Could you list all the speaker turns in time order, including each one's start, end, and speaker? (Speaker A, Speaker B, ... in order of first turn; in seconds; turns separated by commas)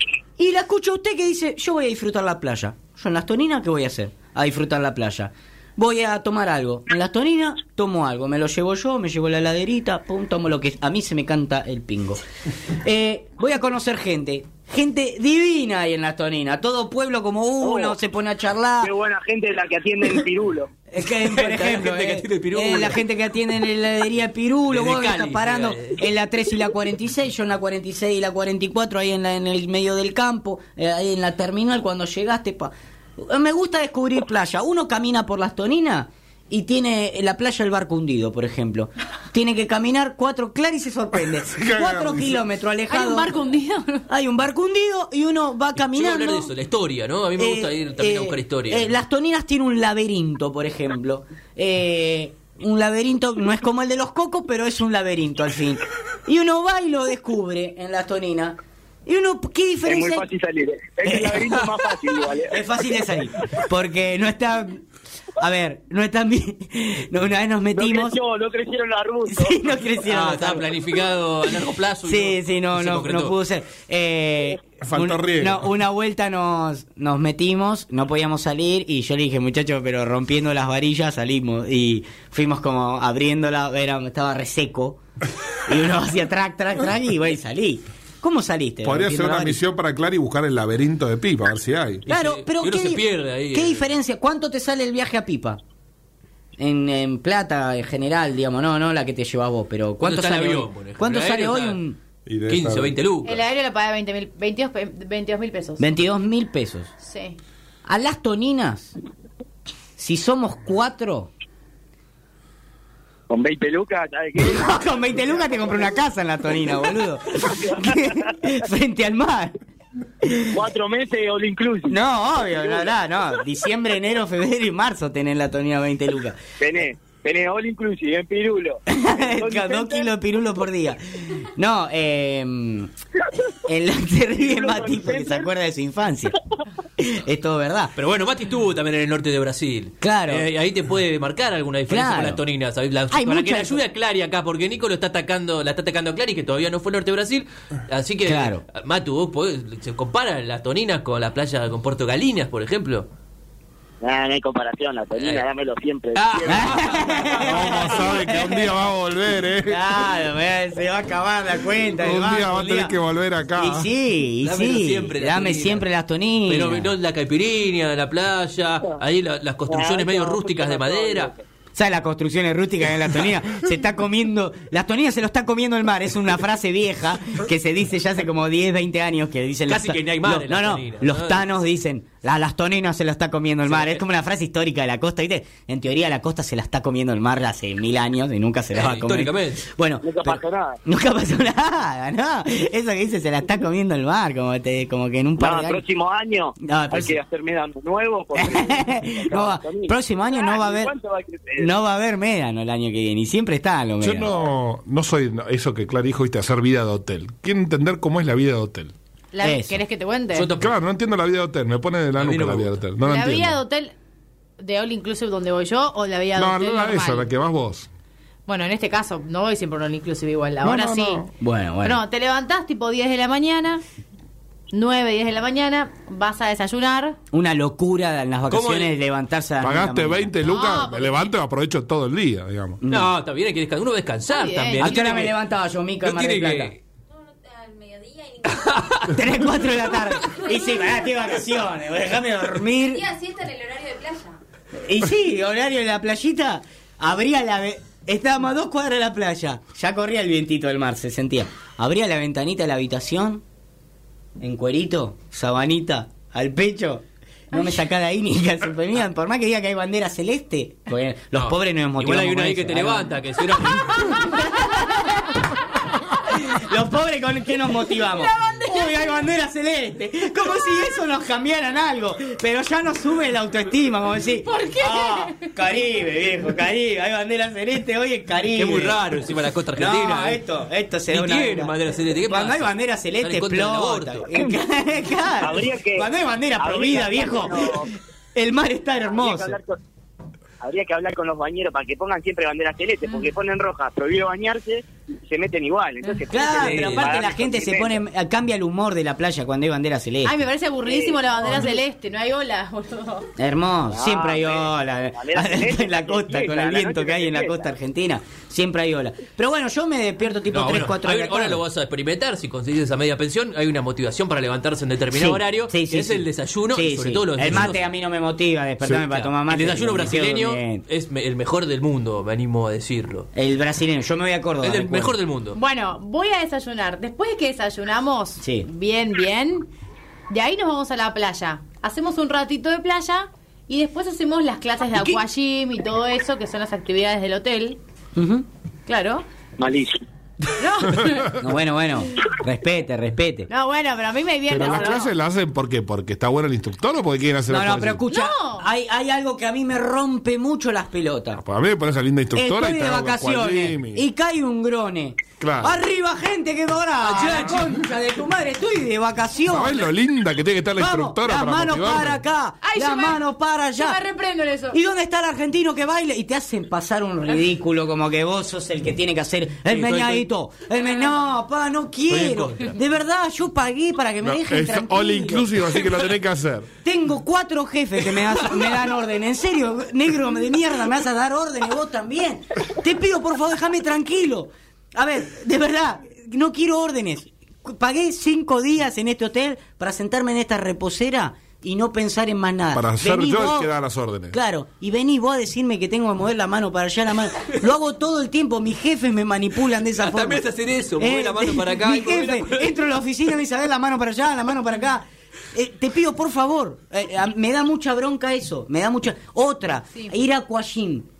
Speaker A: 0.4-18.9, Speaker B: 17.6-18.0, Speaker B: 18.8-20.7, Speaker A: 20.9-43.3, Speaker C: 21.2-23.0, Speaker C: 24.7-26.0, Speaker D: 41.4-42.3, Speaker E: 42.9-44.1, Speaker A: 44.1-46.5, Speaker C: 45.8-48.9, Speaker A: 47.4-60.3, Speaker B: 59.9-62.6, Speaker A: 61.0-61.7, Speaker A: 62.4-64.8, Speaker A: 65.4-68.2, Speaker B: 67.8-69.6, Speaker A: 69.3-70.7, Speaker C: 70.1-73.3, Speaker A: 72.0-85.0, Speaker D: 74.8-75.7, Speaker A: 85.7-89.6, Speaker D: 88.8-92.1, Speaker A: 92.1-95.6, Speaker C: 92.1-93.9, Speaker A: 96.6-102.0, Speaker C: 100.0-101.8, Speaker D: 102.3-103.0, Speaker C: 102.5-103.4, Speaker E: 103.2-105.9, Speaker A: 105.8-106.9, Speaker E: 107.0-107.4, Speaker A: 107.9-108.9, Speaker A: 110.0-111.3, Speaker B: 113.3-114.8, Speaker A: 114.4-119.5, Speaker B: 117.4-118.4, Speaker A: 120.2-120.6, Speaker B: 120.5-122.0, Speaker A: 121.9-126.4, Speaker B: 126.6-130.1, Speaker A: 128.9-132.9, Speaker A: 133.6-136.4, Speaker B: 134.4-135.5, Speaker A: 137.0-137.9, Speaker C: 138.0-153.1, Speaker A: 140.0-140.5, Speaker A: 141.9-142.4, Speaker A: 143.1-143.8, Speaker A: 148.2-148.6, Speaker B: 154.0-157.9, Speaker C: 155.2-155.4, Speaker C: 156.2-157.8, Speaker A: 156.5-158.8, Speaker D: 157.4-159.8, Speaker A: 159.7-162.9, Speaker D: 162.0-163.9, Speaker A: 163.6-166.9, Speaker C: 164.4-165.8, Speaker C: 166.5-171.3, Speaker B: 169.7-171.4, Speaker A: 171.8-195.8, Speaker C: 179.7-181.4, Speaker C: 183.7-184.0, Speaker C: 188.7-189.6, Speaker B: 190.0-190.8, Speaker B: 195.4-201.7, Speaker A: 196.6-197.2, Speaker A: 198.3-200.9, Speaker A: 201.6-204.3, Speaker D: 204.0-208.9, Speaker E: 209.3-210.5, Speaker A: 209.4-209.8, Speaker C: 210.3-210.7, Speaker D: 210.6-213.6, Speaker C: 212.2-212.8, Speaker E: 213.0-213.9, Speaker E: 214.6-217.3, Speaker D: 216.4-217.9, Speaker E: 218.5-221.2, Speaker D: 220.6-221.3, Speaker A: 221.3-222.0, Speaker E: 221.8-223.8, Speaker E: 224.7-227.2, Speaker A: 227.3-230.3, Speaker C: 228.5-228.9, Speaker D: 229.6-232.8, Speaker E: 230.4-231.3, Speaker A: 232.8-233.1, Speaker C: 232.9-235.4, Speaker E: 234.3-235.0, Speaker A: 234.8-236.7, Speaker C: 236.0-236.8, Speaker F: 237.1-238.9, Speaker C: 238.5-240.4, Speaker A: 239.1-243.1, Speaker F: 240.2-241.1, Speaker F: 242.8-244.4, Speaker A: 244.7-253.4, Speaker A: 254.4-265.4, Speaker C: 261.4-264.4, Speaker E: 263.9-265.4, Speaker A: 266.3-279.0, Speaker E: 268.0-269.2, Speaker E: 270.5-270.9, Speaker E: 274.4-275.5, Speaker C: 278.6-280.4, Speaker A: 279.8-281.8, Speaker C: 281.1-284.3, Speaker A: 282.3-289.6, Speaker B: 285.4-286.1, Speaker B: 286.6-287.9, Speaker B: 289.1-289.8, Speaker B: 290.6-298.0, Speaker A: 296.3-300.4, Speaker C: 296.4-297.2, Speaker E: 300.2-303.3, Speaker B: 300.9-301.6, Speaker A: 303.4-311.6, Speaker B: 303.9-307.6, Speaker C: 310.5-317.8, Speaker A: 315.1-320.8, Speaker C: 319.1-323.3, Speaker A: 323.4-325.2, Speaker C: 324.6-325.6, Speaker E: 325.6-329.7, Speaker A: 328.4-328.7, Speaker E: 330.3-337.8, Speaker A: 334.9-335.2, Speaker A: 338.2-338.5, Speaker E: 338.9-339.2, Speaker B: 339.6-340.0, Speaker E: 340.6-341.4, Speaker A: 341.3-343.5, Speaker E: 343.5-345.1, Speaker D: 344.5-348.0, Speaker A: 347.5-351.4, Speaker E: 348.1-348.7, Speaker D: 351.4-354.0, Speaker A: 352.3-359.9, Speaker D: 355.4-355.8, Speaker C: 357.0-357.8, Speaker D: 359.5-362.2, Speaker A: 360.8-364.0, Speaker E: 362.6-363.2, Speaker E: 363.8-364.8, Speaker A: 364.7-375.5, Speaker C: 369.7-370.3, Speaker C: 372.1-372.6, Speaker D: 374.2-376.7, Speaker A: 376.8-393.7, Speaker D: 392.7-394.4, Speaker A: 394.3-400.4, Speaker C: 400.0-402.8, Speaker A: 401.0-411.1